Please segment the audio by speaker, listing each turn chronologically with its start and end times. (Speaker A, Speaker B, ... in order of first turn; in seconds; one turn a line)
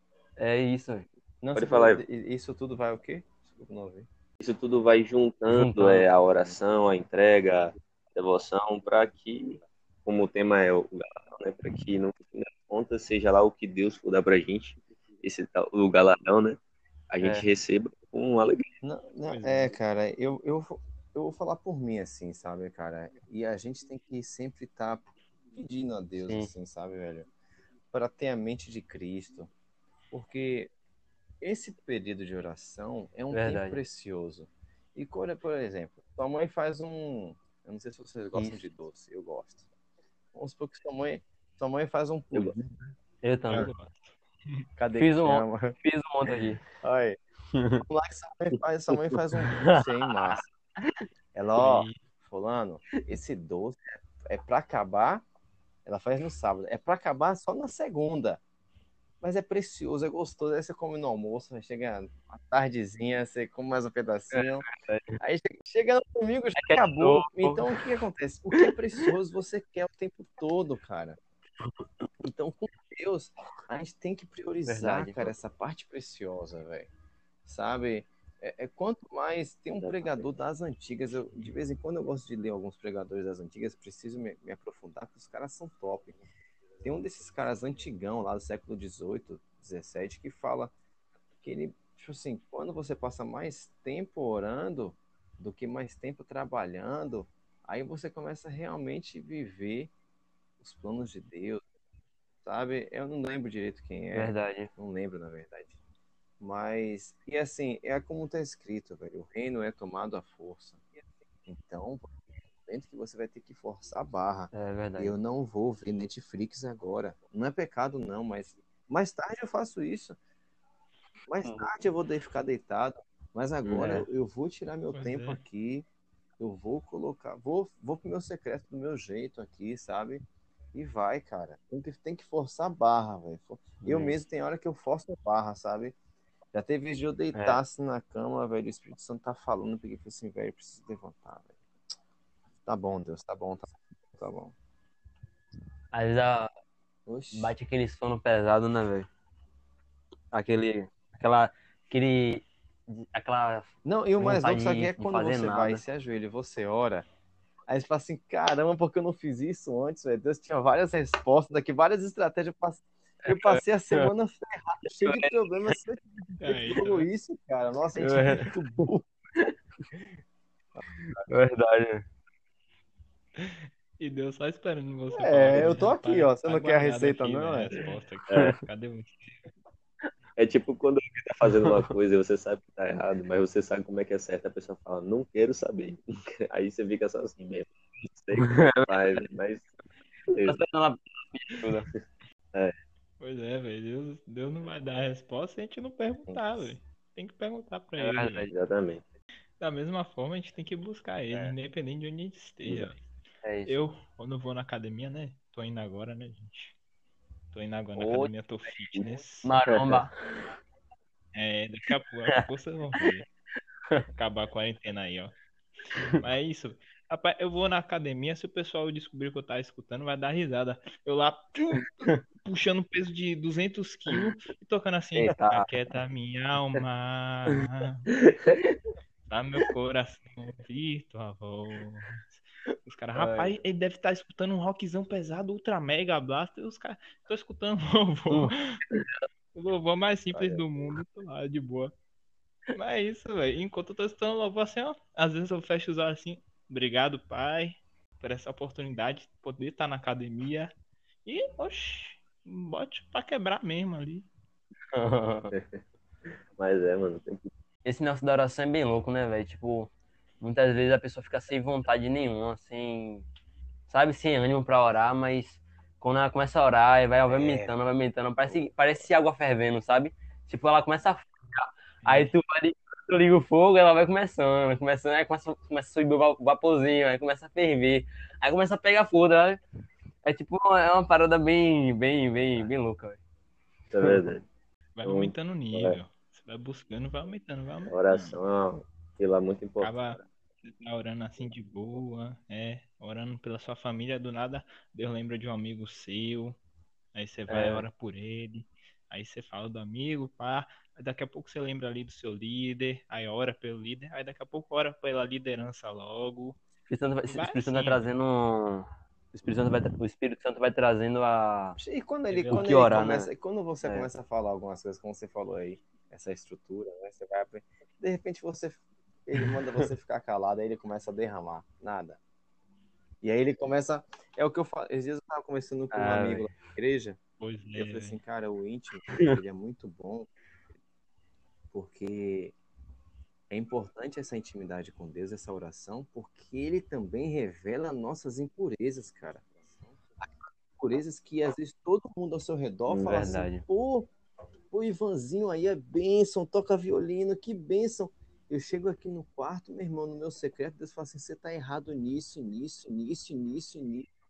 Speaker A: 0.4-1.1
Speaker B: 1.4-4.1
Speaker C: 1.5-2.0
Speaker C: 4.4-16.6
Speaker A: 5.5-6.1
Speaker C: 17.1-18.6
Speaker A: 17.2-17.4
Speaker B: 18.8-27.3
Speaker D: 19.3-19.7
Speaker A: 26.2-26.5
Speaker B: 27.9-29.5
Speaker B: 30.1-30.7
Speaker B: 31.4-39.6
Speaker A: 33.3-33.8
Speaker A: 38.3-38.6
Speaker B: 40.3-42.7
Speaker C: 42.3-42.6
Speaker A: 43.2-43.7
Speaker D: 43.5-44.7
Speaker B: 44.8-47.2
Speaker A: 44.9-46.6
Speaker A: 47.5-47.8
Speaker B: 47.8-50.5
Speaker A: 49.4-50.4
Speaker B: 51.3-55.2
Speaker D: 51.6-52.0
Speaker B: 55.8-58.4
Speaker B: 59.2-64.7
Speaker A: 64.3-65.2
Speaker B: 65.2-71.2
Speaker A: 66.5-67.8
Speaker A: 68.6-69.0
Speaker B: 72.2-76.9
Speaker A: 74.7-75.3
Speaker B: 77.4-86.2
Speaker C: 79.8-80.3
Speaker D: 81.1-81.5
Speaker B: 86.8-90.7
Speaker B: 91.4-99.9
Speaker B: 100.6-101.6
Speaker B: 102.4-105.8
Speaker A: 104.1-104.7
Speaker B: 106.4-110.9
Speaker B: 111.5-120.2
Speaker A: 114.5-115.2
Speaker B: 121.3-125.9
Speaker A: 121.4-121.7
Speaker C: 123.6-124.0
Speaker D: 124.9-125.4
Speaker B: 126.4-135.9
Speaker A: 133.8-134.2
Speaker B: 136.5-141.6
Speaker A: 137.3-137.6
Speaker B: 142.6-144.5
Speaker A: 145.9-146.5
Speaker B: 147.1-147.5
Speaker A: 147.3-149.1
Speaker A: 150.3-155.8
Speaker B: 153.8-157.1
Speaker B: 157.7-169.1
Speaker A: 163.2-164.1
Speaker A: 165.0-165.8
Speaker D: 166.4-167.1
Speaker A: 168.0-168.5
Speaker B: 170.8-171.3
Speaker A: 171.3-172.1
Speaker D: 173.4-179.4
Speaker B: 175.1-177.8
Speaker A: 175.5-175.8
Speaker C: 180.4-189.7
Speaker A: 188.3-189.2
Speaker C: 190.3-190.6
Speaker A: 190.4-191.9
Speaker D: 193.2-198.5
Speaker B: 196.3-196.7
Speaker A: 198.0-198.5
Speaker C: 198.5-199.0
Speaker D: 199.6-203.0
Speaker A: 203.4-203.8
Speaker D: 203.7-206.7
Speaker D: 207.5-209.5
Speaker A: 207.9-208.3
Speaker A: 209.4-210.1
Speaker C: 209.6-210.0
Speaker D: 211.3-213.3
Speaker D: 214.1-215.4
Speaker A: 215.9-216.2
Speaker D: 216.2-228.1
Speaker A: 225.2-225.7
Speaker D: 229.3-238.8
Speaker A: 233.1-233.6
Speaker A: 238.3-239.1
Speaker D: 239.5-241.9
Speaker D: 242.7-250.7
Speaker D: 251.2-254.3
Speaker A: 254.9-255.5
Speaker C: 255.5-255.8
Speaker C: 256.6-257.5
Speaker A: 257.8-263.2
Speaker A: 263.9-279.6
Speaker B: 267.2-267.7
Speaker D: 272.0-272.3
Speaker A: 280.2-283.2
Speaker C: 283.9-284.4
Speaker D: 284.9-288.4
Speaker C: 285.0-286.0
Speaker C: 287.9-290.1
Speaker D: 289.8-296.6
Speaker D: 297.1-306.6
Speaker A: 297.5-297.9
Speaker A: 306.9-311.8
Speaker D: 307.3-308.1
Speaker B: 311.8-322.2
Speaker D: 312.3-313.0
Speaker A: 312.5-313.3
Speaker A: 313.8-314.1
Speaker B: 323.2-327.2
Speaker A: 325.9-326.6
Speaker D: 327.4-328.2
Speaker B: 327.8-330.3
Speaker B: 331.7-332.6
Speaker B: 333.5-344.1
Speaker C: 342.9-343.3
Speaker A: 343.0-343.6
Speaker B: 344.7-354.1